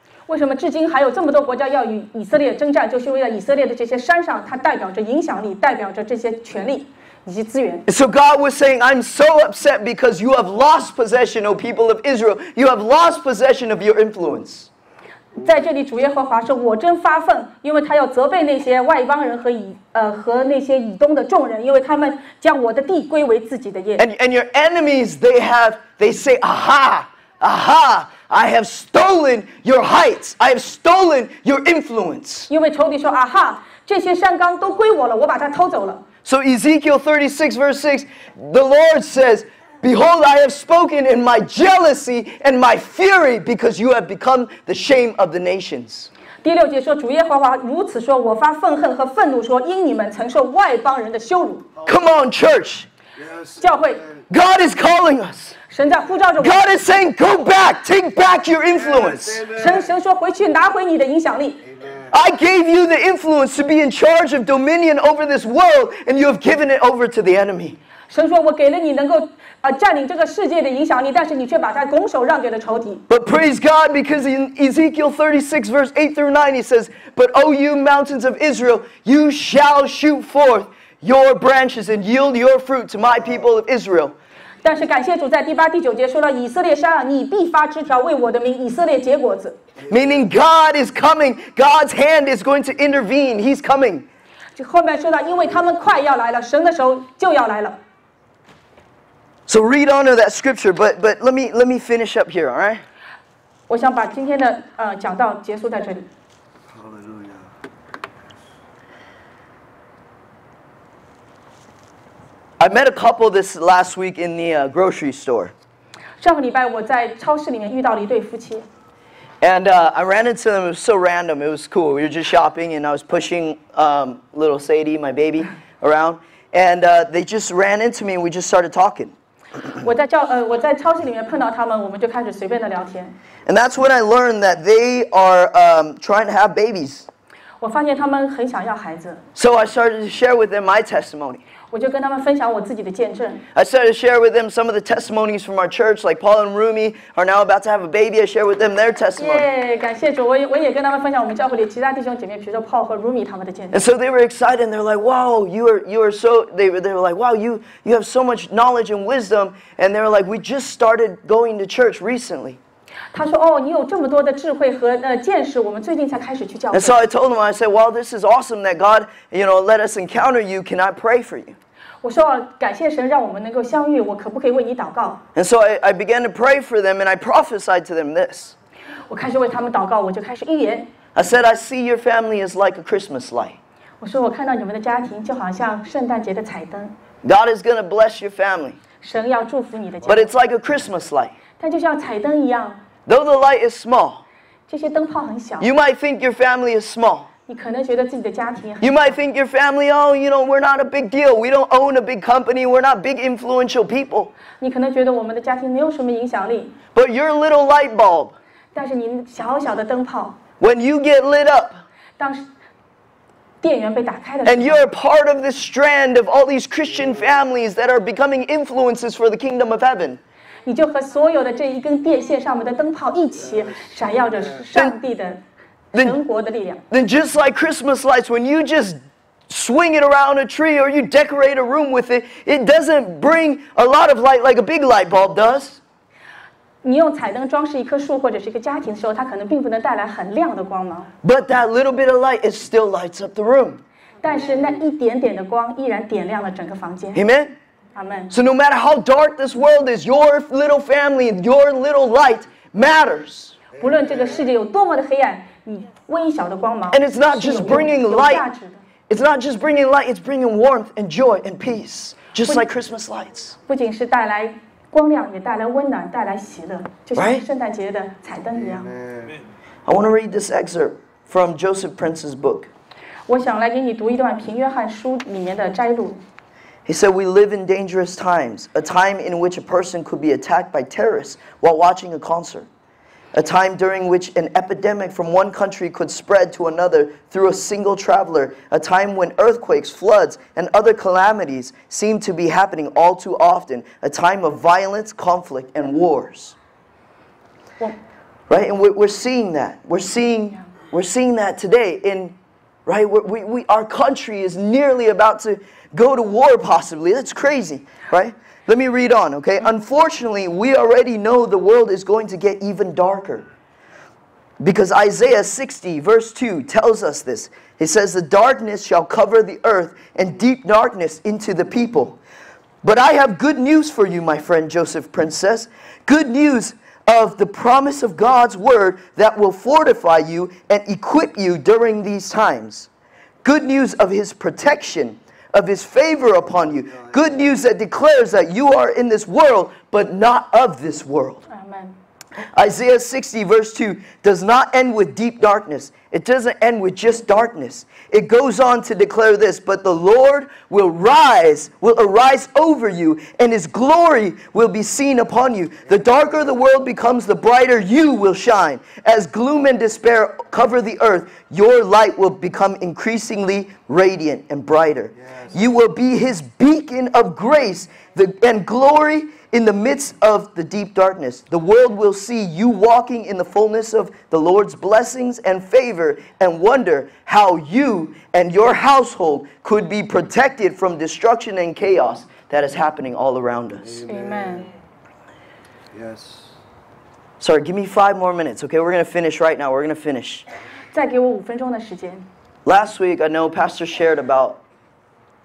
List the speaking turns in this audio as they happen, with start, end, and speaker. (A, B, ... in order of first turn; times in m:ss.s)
0:00.3-0:07.8 A
0:07.9-0:14.7 B
0:15.4-0:24.0 A
0:24.0-0:32.5 B
0:32.5-0:36.0 A
0:36.2-0:46.1 B
0:46.4-0:51.7 A
0:51.8-0:52.9 B
0:53.2-0:54.2 C
0:53.6-0:54.0 A
0:54.3-0:55.5 B
0:55.7-0:56.6 A
0:56.4-0:59.5 B
0:58.7-0:59.9 C
0:59.5-1:01.6 A
1:01.6-1:02.1 C
1:02.1-1:07.8 B
1:08.1-1:13.0 A
1:13.1-1:24.1 B
1:24.6-1:29.6 A
1:29.9-1:34.0 B
1:34.6-1:37.8 A
1:39.5-1:42.8 B
1:43.7-1:46.0 A
1:46.7-1:47.5 C
1:52.6-1:55.5 B
1:56.2-1:58.7 A
1:59.4-2:09.1 B
2:09.8-2:13.2 A
2:13.4-2:17.1 B
2:17.6-2:19.2 A
2:19.3-2:21.4 B
2:21.7-2:23.4 A
2:23.5-2:29.4 B
2:29.2-2:33.8 A
2:33.7-2:42.6 B
2:43.1-2:47.0 A
2:46.7-2:51.6 B
2:52.0-2:55.2 A
2:55.3-2:58.5 B
2:59.1-3:00.9 A
3:01.1-3:03.6 B
3:04.0-3:06.9 A
3:07.2-3:08.8 B
3:09.0-3:10.3 A
3:10.0-3:11.3 B
3:11.6-3:12.8 A
3:13.0-3:14.2 B
3:14.7-3:15.7 A
3:15.6-3:17.3 B
3:17.5-3:19.1 A
3:18.8-3:24.3 B
3:24.6-3:26.8 A
3:26.9-3:28.3 B
3:28.7-3:30.4 A
3:30.6-3:31.8 B
3:32.2-3:32.4 A
3:33.6-3:34.8 A
3:34.4-3:40.2 B
3:40.6-3:45.4 A
3:43.5-3:44.6 C
3:45.9-3:46.2 B
3:45.9-3:46.8 A
3:46.9-3:55.8 B
3:56.8-4:01.1 A
4:01.2-4:03.8 B
4:04.2-4:07.2 A
4:07.1-4:07.5 B
4:07.9-4:08.3 A
4:08.3-4:13.6 B
4:13.8-4:18.8 A
4:16.9-4:18.4 B
4:19.1-4:23.5 B
4:23.7-4:28.9 A
4:27.2-4:27.4 B
4:28.6-4:29.4 C
4:29.8-4:32.7 B
4:33.3-4:36.2 A
4:36.9-4:42.7 B
4:43.3-4:56.6 B
4:58.5-5:02.3 B
5:02.8-5:13.5 B
5:14.6-5:22.2 B
5:22.8-5:32.9 B
5:33.4-5:41.4 B
5:41.5-5:42.0 A
5:42.5-6:24.0 B
6:05.2-6:05.5 C
6:23.8-6:24.6 C
6:24.0-6:24.7 A
6:25.9-6:26.6 C
6:27.4-6:30.4 B
6:30.9-6:32.3 A
6:32.6-6:34.6 B